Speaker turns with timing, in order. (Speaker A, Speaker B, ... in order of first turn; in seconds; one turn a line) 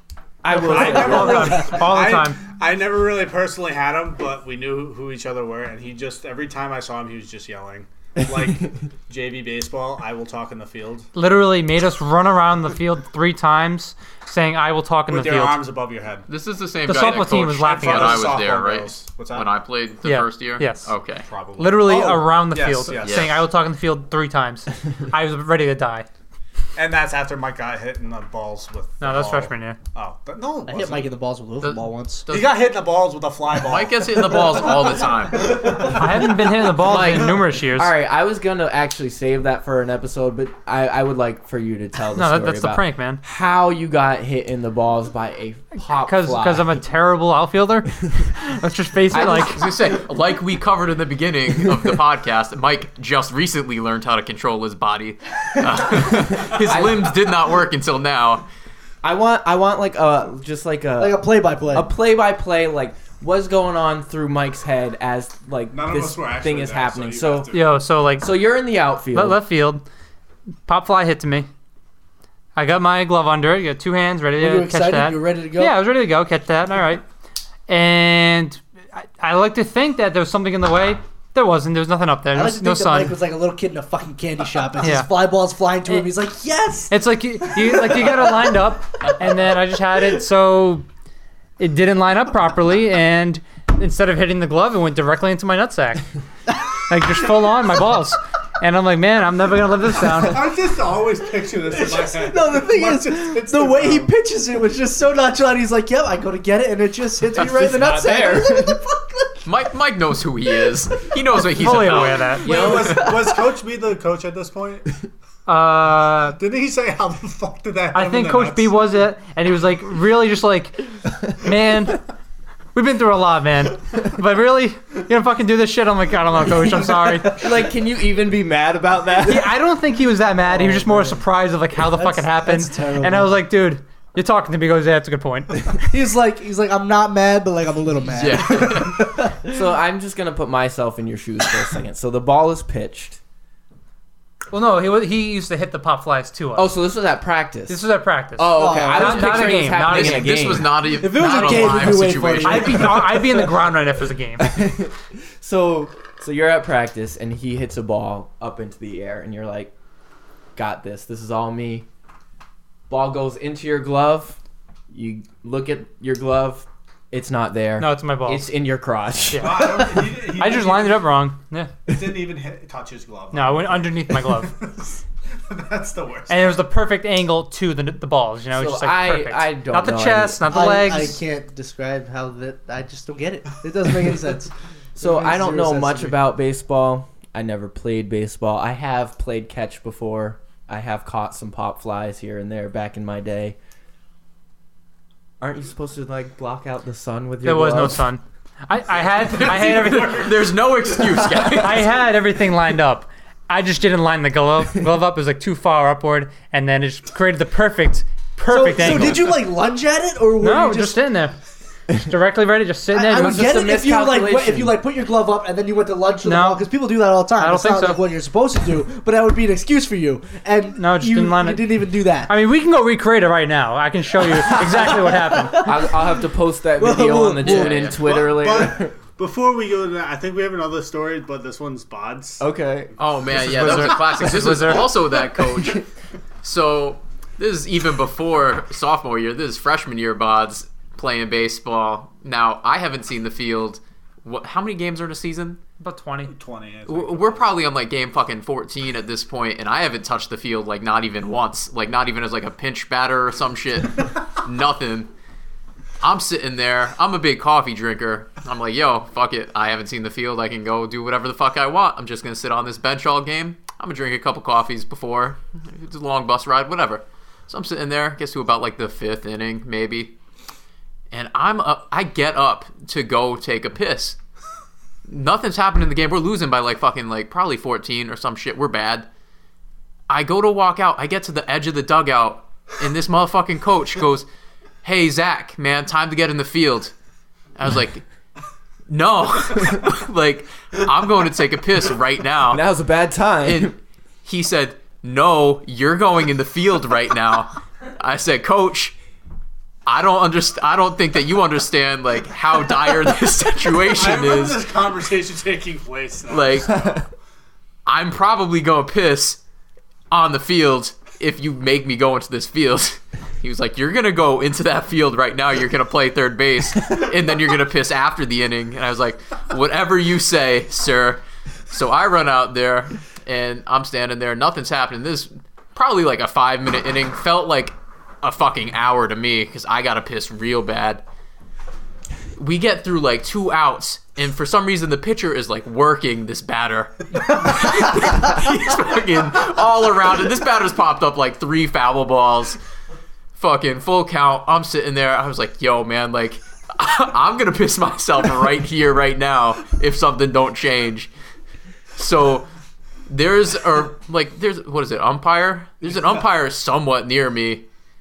Speaker A: 0.4-1.6
Speaker B: 0.5-11.1
Speaker C: 0.5-2.4
Speaker C: 11.1-15.6
Speaker B: 15.1-16.2
Speaker D: 16.3-21.2
Speaker C: 16.9-18.3
Speaker B: 16.9-19.5
Speaker C: 20.0-20.9
Speaker B: 21.3-23.4
Speaker C: 21.6-26.1
Speaker D: 23.0-23.3
Speaker B: 26.8-31.1
Speaker C: 29.0-29.8
Speaker E: 30.6-32.3
Speaker D: 31.6-32.6
Speaker B: 32.3-36.0
Speaker D: 33.5-35.8
Speaker C: 35.8-37.9
Speaker A: 36.8-46.8
Speaker C: 42.1-43.2
Speaker C: 46.0-49.6
Speaker A: 49.1-49.7
Speaker D: 49.5-58.4
Speaker A: 56.5-57.1
Speaker A: 59.0-67.5
Speaker E: 61.0-61.9
Speaker B: 65.7-67.8
Speaker C: 67.5-68.3
Speaker A: 68.2-69.4
Speaker C: 69.1-69.8
Speaker C: 70.7-71.5
Speaker C: 72.5-77.0
Speaker E: 74.4-75.8
Speaker C: 77.7-83.2
Speaker E: 82.3-88.6
Speaker C: 84.8-85.1
Speaker C: 86.9-90.8
Speaker C: 91.6-96.0
Speaker C: 96.8-100.5
Speaker B: 100.2-104.1
Speaker E: 101.7-109.4
Speaker A: 107.4-108.8
Speaker D: 109.4-113.1
Speaker E: 110.6-111.4
Speaker C: 111.6-112.5
Speaker B: 111.7-114.9
Speaker E: 112.5-113.5
Speaker C: 115.5-116.4
Speaker B: 116.3-118.8
Speaker C: 117.9-122.0
Speaker C: 122.7-127.4
Speaker A: 127.2-129.5
Speaker C: 129.2-135.8
Speaker E: 130.5-131.2
Speaker E: 131.8-133.4
Speaker E: 135.9-139.6
Speaker D: 138.1-139.1
Speaker A: 139.5-143.2
Speaker C: 144.5-146.7
Speaker A: 146.5-147.8
Speaker C: 147.7-150.3
Speaker A: 148.3-150.8
Speaker E: 148.5-149.5
Speaker D: 149.8-153.0
Speaker E: 150.9-153.3
Speaker C: 151.5-151.8
Speaker C: 152.4-154.6
Speaker A: 154.4-159.7
Speaker A: 160.6-161.9
Speaker A: 162.9-164.4
Speaker A: 164.9-170.0
Speaker C: 167.8-168.5
Speaker C: 169.3-169.7
Speaker B: 169.4-171.1
Speaker C: 170.3-171.7
Speaker B: 171.9-176.6
Speaker C: 173.3-174.6
Speaker C: 176.3-181.2
Speaker A: 178.5-180.4
Speaker E: 180.5-186.2
Speaker A: 184.9-193.6
Speaker A: 195.4-198.1
Speaker C: 197.4-200.3
Speaker B: 199.0-200.3
Speaker D: 199.3-201.9
Speaker C: 201.5-209.3
Speaker E: 208.5-211.0
Speaker D: 208.8-209.2
Speaker C: 210.4-211.4
Speaker C: 211.9-213.7
Speaker E: 212.9-222.3
Speaker A: 213.1-214.8
Speaker C: 216.2-216.6
Speaker C: 217.4-218.0
Speaker C: 220.7-221.6
Speaker C: 222.3-225.7
Speaker A: 224.4-225.0
Speaker E: 224.5-226.2
Speaker A: 225.6-228.9
Speaker E: 226.8-227.9
Speaker D: 227.4-228.0
Speaker B: 227.8-232.4
Speaker A: 232.4-232.9
Speaker D: 233.0-235.8
Speaker C: 233.4-234.9
Speaker D: 236.4-245.6
Speaker C: 245.8-246.3
Speaker B: 246.3-247.5
Speaker D: 246.9-255.1
Speaker D: 256.0-270.1
Speaker D: 271.1-274.2
Speaker D: 275.1-279.1
Speaker D: 280.1-284.3
Speaker D: 284.8-286.9
Speaker D: 287.6-288.0
Speaker D: 288.9-292.6
Speaker A: 292.5-293.8
Speaker D: 293.4-298.9
Speaker D: 299.9-304.6
Speaker B: 303.9-307.0
Speaker D: 306.3-306.9
Speaker D: 307.9-309.4
Speaker D: 310.1-331.0
Speaker D: 332.4-342.6
Speaker D: 343.3-351.1
Speaker D: 351.9-352.5
Speaker D: 353.1-357.6